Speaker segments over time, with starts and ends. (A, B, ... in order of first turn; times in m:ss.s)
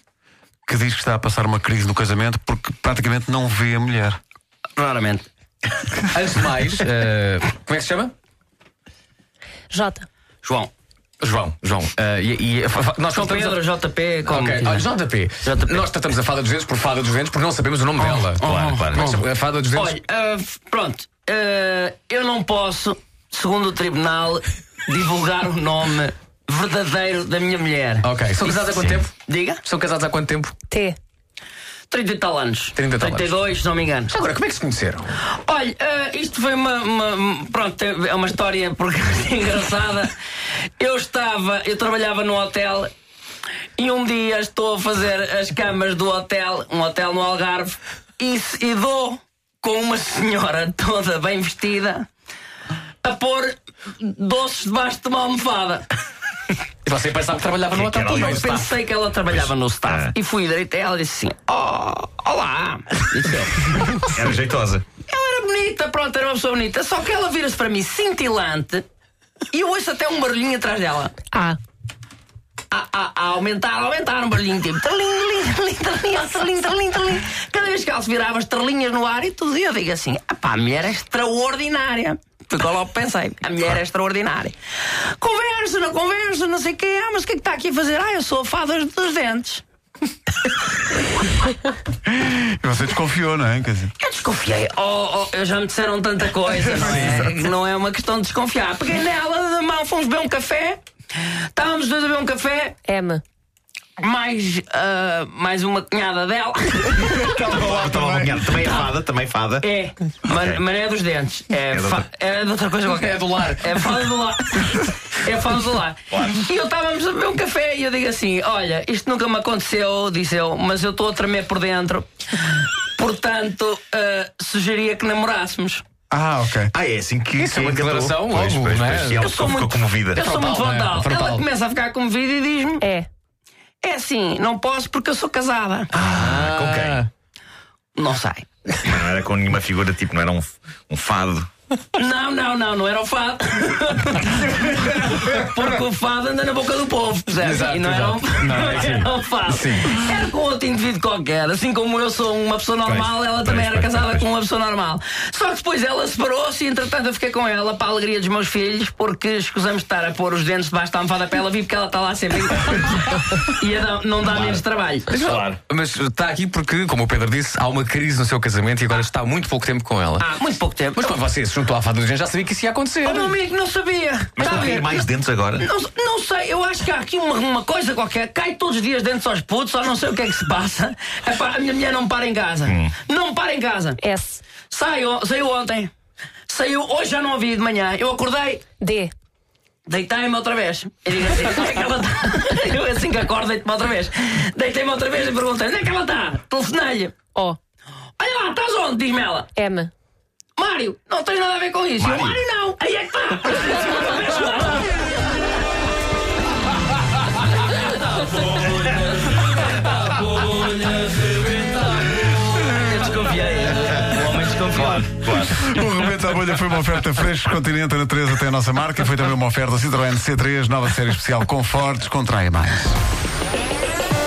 0:00.6-0:04.2 A
0:04.8-0:05.3 B
0:06.1-0:08.1 C
0:09.7-0:10.1 D
0:10.4-0:10.7 B
0:11.2-0:13.6 C
0:13.1-0:14.8 B
0:14.2-0:20.0 C
0:15.4-0:15.8 B
0:18.3-0:19.2 B
0:18.4-0:19.0 E
0:19.7-0:28.6 B
0:28.0-0:29.1 C
0:29.3-0:29.6 B
0:29.6-0:30.6 C
0:30.7-0:31.0 D
0:31.9-0:34.1 B
0:32.8-0:33.4 C
0:34.1-0:35.1 C
0:35.3-0:40.1 B
0:40.8-0:42.9 B
0:43.8-0:52.1 B
0:53.0-0:55.8 B
0:56.8-0:58.7 C
0:57.7-0:58.4 E
0:58.2-1:04.2 B
1:04.2-1:04.8 E
1:05.1-1:08.8 B
1:09.5-1:11.2 B
1:11.3-1:11.6 D
1:12.7-1:24.6 B
1:25.2-1:29.6 B
1:32.1-1:33.9 A
1:34.0-1:42.8 B
1:42.9-1:43.2 D
1:44.0-1:47.5 B
1:47.2-1:48.5 A
1:47.4-1:49.7 E
1:48.5-1:48.9 B
1:49.6-2:05.8 B
1:50.3-1:50.6 E
1:51.7-1:52.0 E
1:52.9-1:54.0 C
2:06.1-2:06.8 A
2:06.7-2:10.2 E
2:07.4-2:09.3 C
2:09.2-2:12.8 B
2:10.2-2:11.4 C
2:12.8-2:13.1 D
2:13.8-2:15.9 B
2:16.0-2:17.0 E
2:16.0-2:17.1 C
2:18.0-2:18.5 B
2:18.8-2:21.5 E
2:22.0-2:45.1 B
2:27.4-2:30.0 C
2:32.8-2:34.3 E
2:45.1-2:50.3 C
2:45.3-2:45.6 E
2:50.2-2:51.1 B
2:51.0-2:53.4 C
2:53.0-3:04.0 B
2:54.4-2:55.7 E
3:02.7-3:02.9 E
3:04.0-3:04.6 D
3:04.6-3:05.9 B
3:06.5-3:08.7 B
3:08.7-3:09.1 D
3:09.9-3:17.2 B
3:17.3-3:17.6 D
3:18.2-3:19.6 B
3:19.5-3:19.9 D
3:20.6-3:24.9 B
3:22.2-3:22.4 E
3:27.9-3:35.3 B
3:34.8-3:35.8 E
3:35.6-3:43.0 A